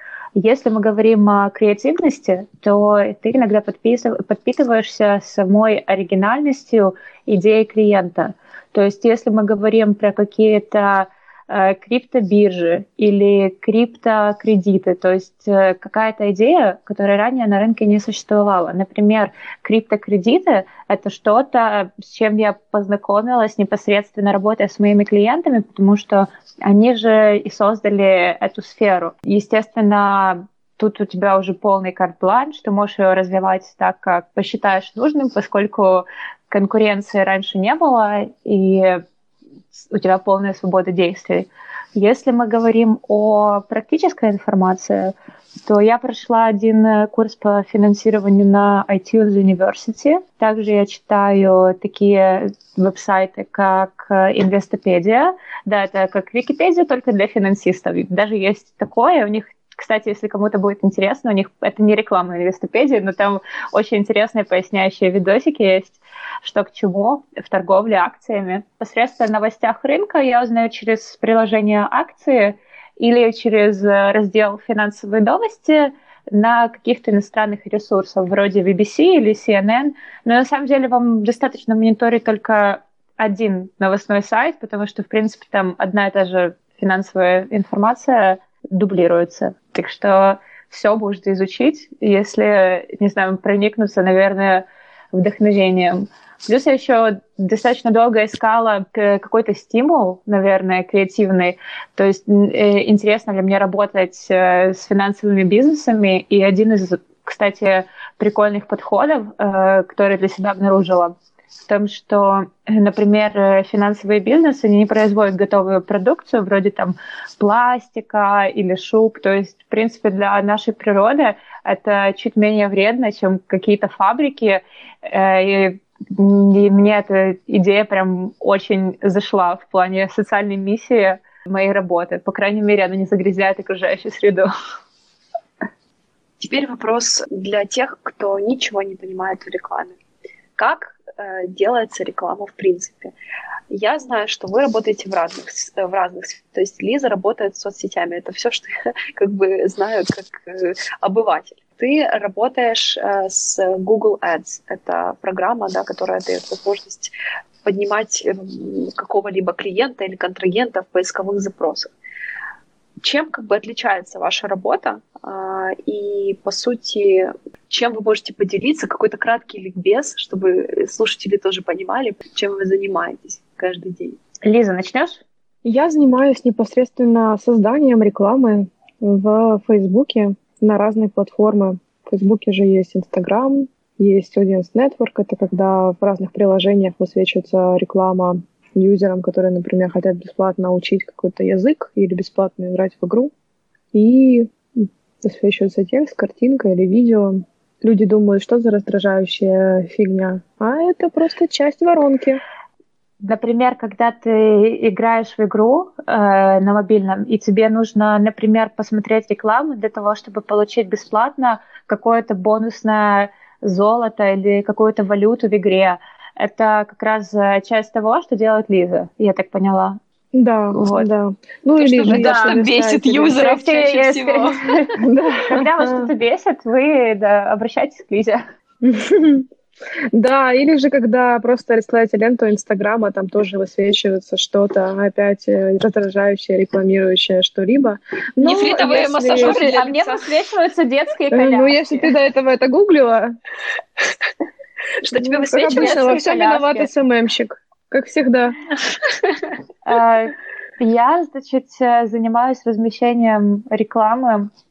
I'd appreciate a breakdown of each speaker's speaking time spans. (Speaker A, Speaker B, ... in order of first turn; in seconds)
Speaker A: 0.4-39.0, 39.7-45.1, 45.6-111.2, 111.7-134.5, 174.4-175.2, 203.2-220.0, 220.7-221.1, 222.1-222.6, 223.3-228.4, 239.3-242.1, 249.9-254.5
Speaker B: 136.4-140.0, 140.6-143.1, 143.7-161.9, 163.0-174.2, 221.8-224.7, 238.4-240.3, 245.0-246.9
Speaker C: 175.6-193.3, 193.9-202.4, 220.3-223.4, 225.0-226.1, 228.8-229.5, 230.1-239.6, 241.3-243.3, 245.2-248.6